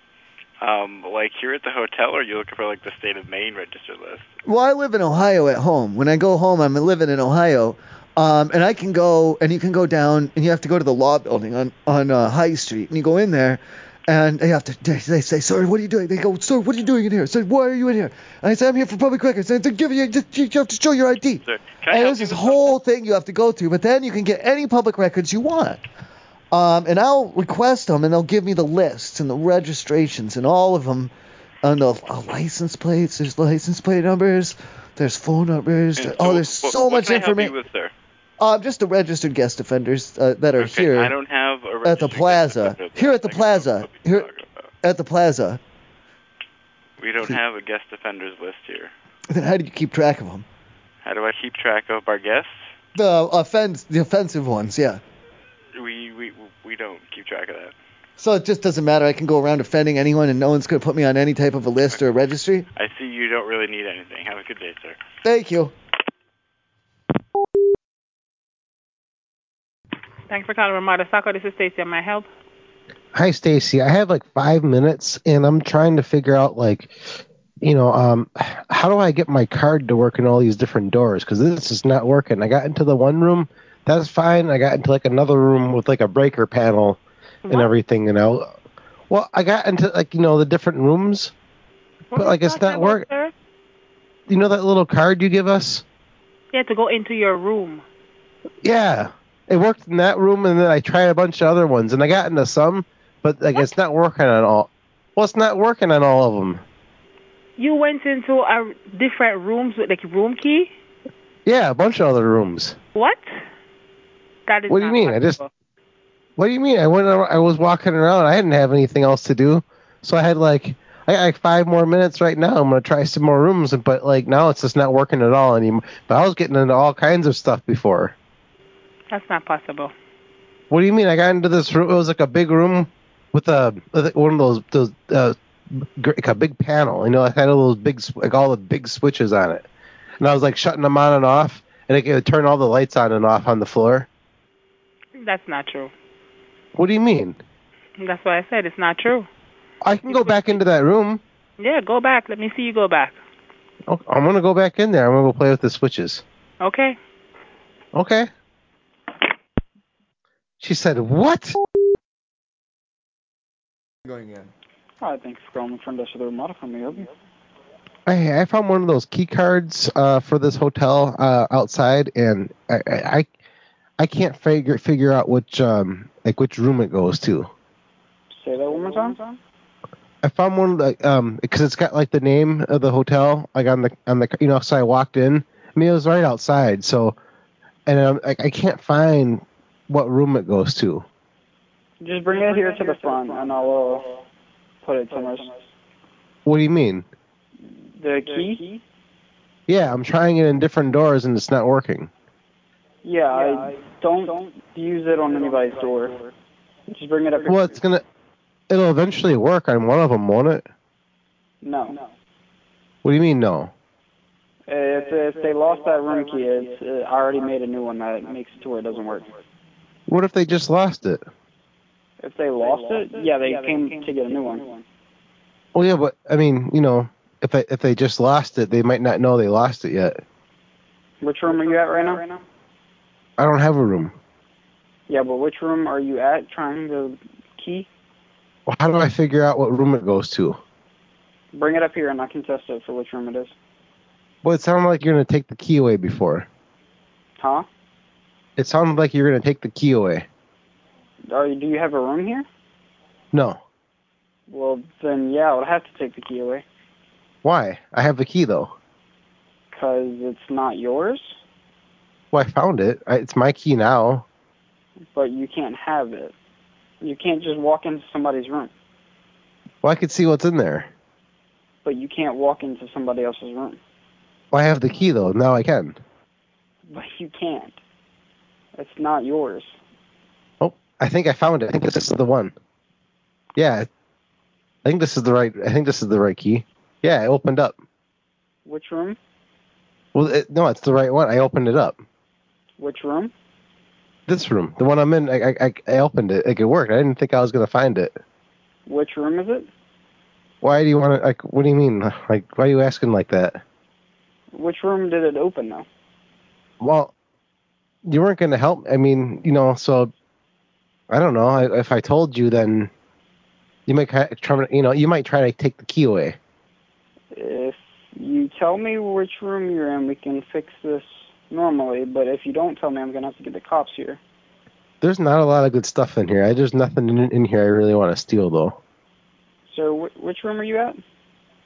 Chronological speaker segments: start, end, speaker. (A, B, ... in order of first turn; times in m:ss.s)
0:00.6-0:04.3 A
0:04.4-0:25.8 B
0:21.4-0:22.8 A
0:26.5-0:37.6 B
0:36.0-0:37.9 A
0:38.4-0:41.1 B
0:40.6-0:44.7 A
0:41.8-0:44.3 B
0:44.8-0:45.6 B
0:47.0-0:48.9 A
0:49.3-0:50.4 B
0:51.0-0:52.8 A
0:52.9-0:55.0 B
0:55.7-0:57.7 A
0:58.2-1:02.7 B
1:02.8-1:05.0 A
1:05.2-1:05.7 B
1:10.3-1:12.2 C
1:13.1-1:28.5 D
1:29.1-1:31.3 D
1:32.1-1:33.3 C
1:32.1-1:33.1 D
1:34.3-1:35.8 D
1:36.5-1:37.8 C
1:38.6-1:46.6 D
1:47.6-1:50.7 C
1:51.4-1:52.8 D
1:54.5-1:55.4 C
1:54.7-1:55.4 D
1:56.4-2:08.1 D
2:09.1-2:09.9 C
2:10.7-2:19.6 D
2:20.2-2:24.1 D
2:25.3-2:25.9 C
2:26.7-2:27.4 D
2:29.8-2:31.2 D
2:30.2-2:30.4 C
2:33.9-2:36.2 D
2:37.9-2:38.3 D
2:40.6-2:41.6 D
2:44.0-2:44.5 B
2:45.0-2:47.1 E
2:48.1-2:53.3 D
2:54.0-2:57.5 D
2:58.3-2:59.4 E
3:00.2-3:07.1 D
3:07.8-3:11.0 D
3:12.0-3:14.1 E
3:14.8-3:15.5 E
3:16.4-3:17.0 D
3:18.0-3:18.8 E
3:19.7-3:22.1 D
3:23.0-3:26.3 E
3:26.9-3:27.7 E
3:27.4-3:28.0 D
3:28.7-3:30.6 D
3:31.6-3:32.0 E
3:33.0-3:33.7 D
3:34.7-3:39.4 E
3:40.1-3:41.2 D
3:42.2-3:44.8 E
3:45.7-3:50.2 D
3:51.2-3:52.4 E
3:53.4-3:54.1 D
3:55.1-3:57.9 E
3:58.7-4:00.6 D
4:01.5-4:03.5 E
4:04.4-4:06.4 D
4:07.4-4:07.7 E
4:08.6-4:10.2 D
4:11.3-4:12.4 E
4:13.3-4:13.6 D
4:14.5-4:16.6 E
4:17.4-4:18.7 D
4:19.7-4:21.4 E
4:22.3-4:24.2 D
4:25.1-4:26.3 E
4:27.0-4:28.7 E
4:29.8-4:30.9 D
4:31.8-4:33.8 E
4:34.5-4:36.0 D
4:36.9-4:37.8 E
4:38.8-4:39.8 E
4:40.6-4:42.5 D
4:43.6-4:43.9 D
4:44.8-4:47.8 D
4:48.6-4:49.2 E
4:50.1-4:52.0 D
4:52.8-4:53.3 E
4:54.3-4:58.2 D
4:58.9-4:59.7 E
5:00.6-5:03.6 D
5:04.5-5:05.8 E
5:06.8-5:07.1 D
5:08.0-5:10.1 D
5:11.1-5:12.9 D
5:13.9-5:16.4 D
5:17.3-5:24.2 E
5:25.0-5:28.8 D
5:29.7-5:31.0 E